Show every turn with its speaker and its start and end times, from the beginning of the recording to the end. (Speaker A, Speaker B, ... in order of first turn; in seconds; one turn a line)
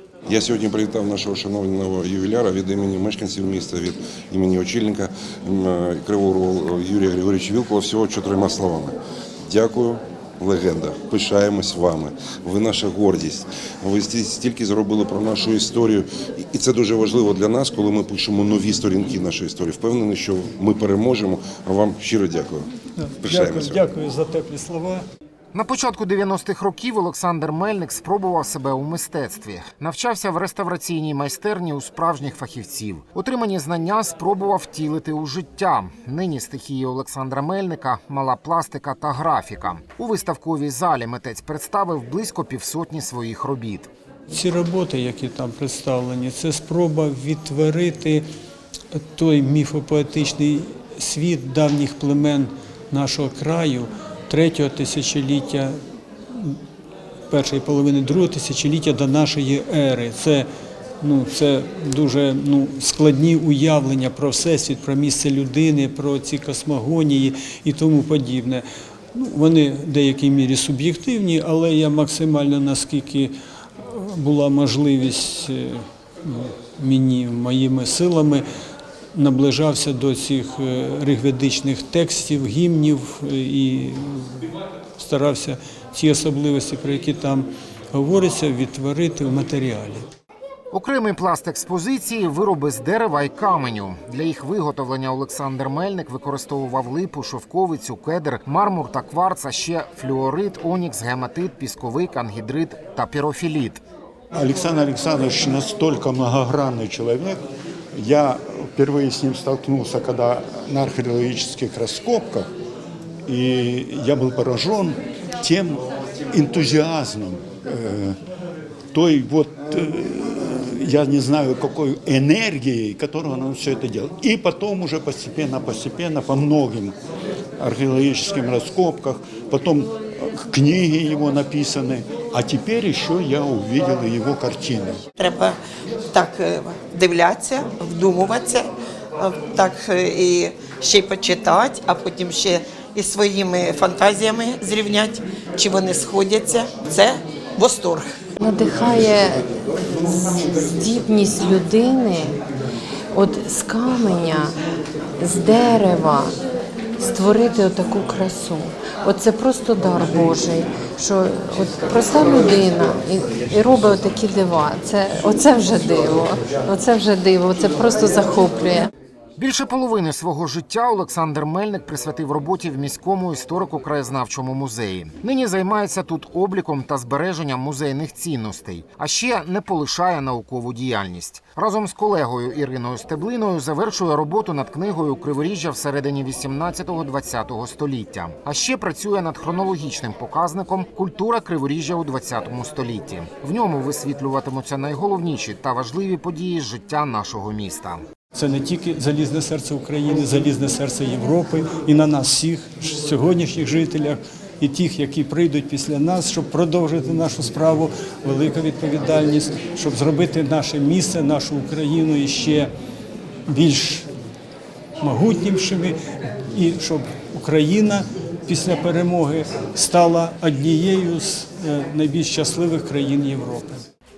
Speaker A: 0.3-22.7
Speaker B: 23.0-25.1
Speaker A: 23.2-23.8
Speaker C: 25.5-43.9
Speaker B: 44.3-48.2
Speaker B: 48.9-55.8
Speaker B: 56.3-56.6
Speaker B: 57.3-60.5
Speaker B: 61.0-78.4
Speaker B: 79.1-84.5
Speaker B: 85.0-90.1
Speaker C: 90.7-103.8
Speaker D: 104.3-107.4
Speaker D: 108.0-112.5
Speaker D: 113.3-118.2
Speaker D: 118.9-127.0
Speaker D: 127.6-135.0
Speaker E: 135.2-135.6
Speaker E: 136.1-148.1
Speaker F: 148.4-149.5
Speaker F: 150.0-152.4
Speaker F: 153.1-154.5
Speaker F: 155.2-156.3
Speaker F: 157.0-168.9
Speaker C: 169.4-198.0
Speaker B: 198.3-212.7
Speaker B: 213.5-214.1
Speaker B: 215.0-215.9
Speaker B: 216.5-223.8